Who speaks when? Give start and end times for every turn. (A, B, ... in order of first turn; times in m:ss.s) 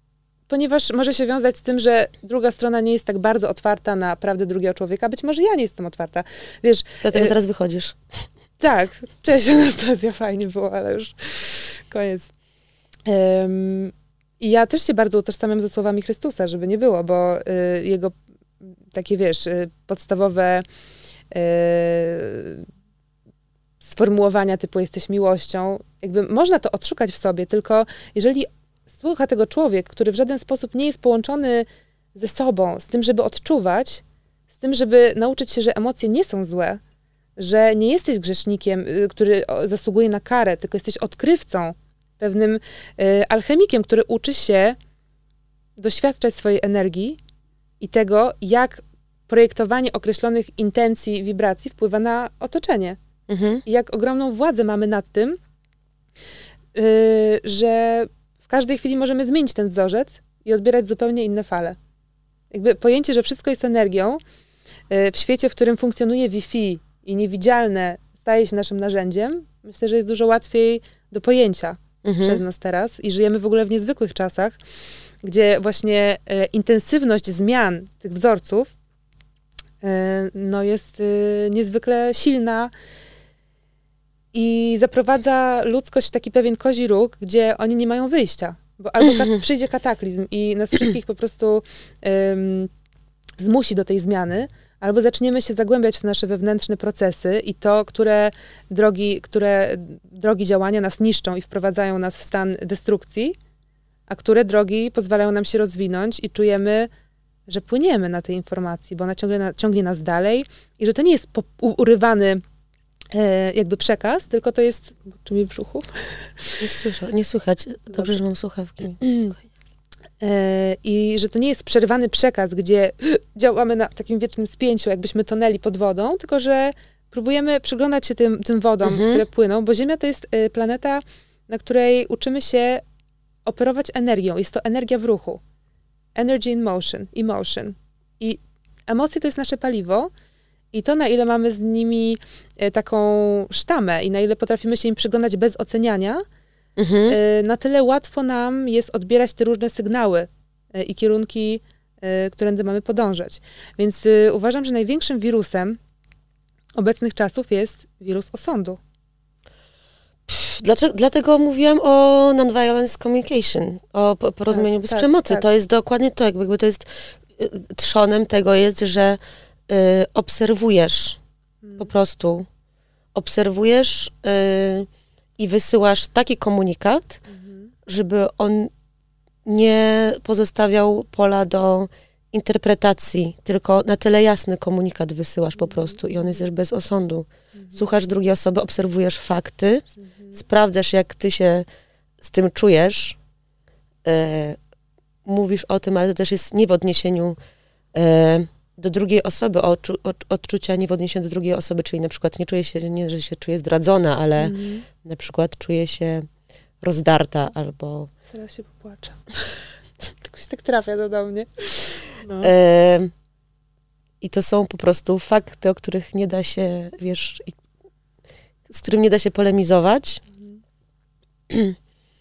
0:00.5-0:07.4 A
0:07.0-0:08.0 B
0:08.6-0:12.3 A
0:13.1-0:20.6 A
0:21.3-0:22.7 A
0:23.8-0:34.0 A
0:34.5-0:36.8 A
0:37.4-0:44.8 A
0:45.8-0:47.2 A
0:47.8-0:53.0 A
0:53.3-0:53.6 B
0:53.7-0:55.4 A
0:56.7-1:01.8 A
1:02.5-1:04.2 A
1:04.9-1:14.6 A
1:12.0-1:12.4 B
1:15.2-1:18.7 A
1:19.8-1:22.7 A
1:24.3-1:32.7 A
1:29.0-1:29.3 B
1:33.4-1:43.4 A
1:44.1-1:46.9 A
1:47.5-1:52.4 A
1:53.1-1:56.6 A
1:56.6-1:59.4 B
1:57.9-1:58.2 A
1:59.0-1:59.3 A
2:00.2-2:12.8 A
2:08.8-2:09.2 B
2:13.5-2:15.4 A
2:16.2-2:20.1 A
2:20.7-2:26.2 A
2:26.8-2:27.2 B
2:27.1-2:35.8 A
2:36.8-2:38.8 A
2:40.3-2:51.2 B
2:44.5-2:45.5 A
2:51.6-2:51.9 A
2:51.8-2:52.5 B
2:53.2-2:57.2 B
2:57.3-2:57.7 A
2:57.9-2:58.7 B
2:59.4-3:11.7 B
3:05.6-3:06.0 A
3:07.6-3:07.8 A
3:10.1-3:10.4 A
3:12.2-3:13.2 B
3:14.0-3:14.6 B
3:15.2-3:17.4 B
3:17.9-3:26.3 B
3:24.4-3:24.8 A
3:26.8-3:28.1 B
3:28.3-3:29.5 A
3:30.2-3:32.5 A
3:32.4-3:33.1 B
3:34.2-3:37.6 B
3:38.7-3:40.2 B
3:41.5-3:41.8 B